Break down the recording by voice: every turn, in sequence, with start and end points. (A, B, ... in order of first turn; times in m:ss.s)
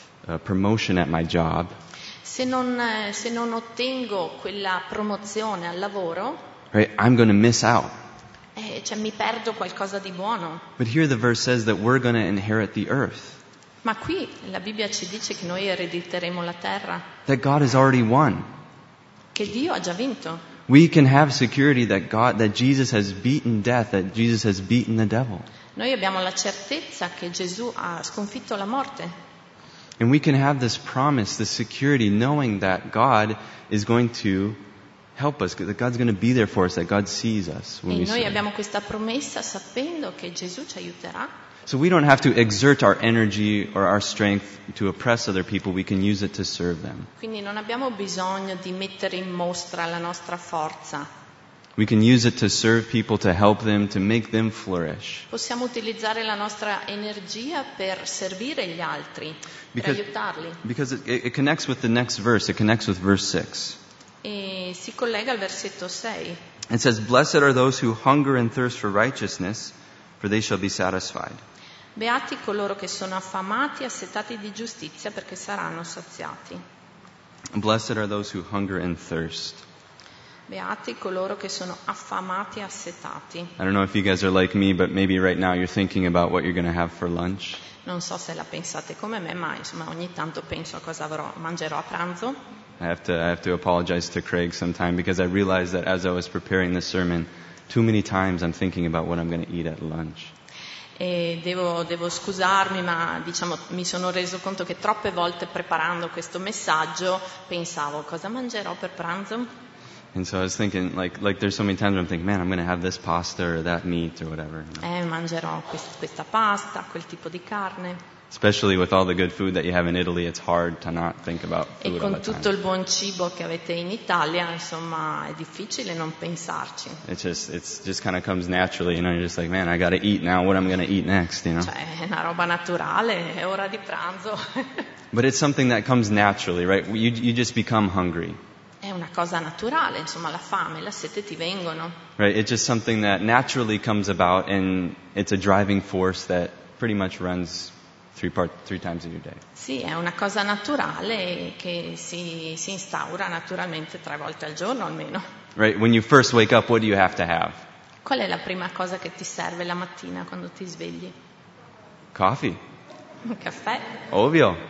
0:00.2-0:01.8 A
0:02.2-0:06.4 B
0:06.7-0:07.9 A
0:08.6-0:10.7 B
0:10.8-0:13.4 A
0:13.8-0:17.1 B
0:17.3-0:18.5 A
0:19.3-0:20.4 B
0:20.7-0:25.5 A
0:25.8-0:29.1 B
0:30.0-0:34.6 A
0:35.2-0:38.4 A
0:37.9-0:41.3 B
0:41.7-0:47.1 A
0:47.2-0:51.1 B
0:51.8-0:55.3 A
0:55.3-1:00.6 B
0:59.7-1:00.0 A
1:00.6-1:03.8 A
1:04.2-1:06.4 B
1:06.7-1:11.4 A
1:12.0-1:16.6 B
1:17.5-1:19.6 A
1:20.5-1:23.5 B
1:23.6-1:27.6 A
1:27.8-1:32.4 B
1:32.8-1:40.3 A
1:41.0-1:49.5 B
1:50.1-1:54.8 A
1:54.8-1:58.0 B
1:58.3-2:02.5 A
2:01.8-2:07.0 B
2:07.0-2:11.7 A
2:11.6-2:14.9 B
2:15.1-2:18.4 A
2:18.8-2:22.0 B
2:22.2-2:29.4 A
2:29.6-2:35.2 B
2:35.6-2:37.6 A
2:38.0-2:41.1 B
2:42.1-2:42.6 A
2:43.2-2:44.0 B
2:44.1-2:44.6 A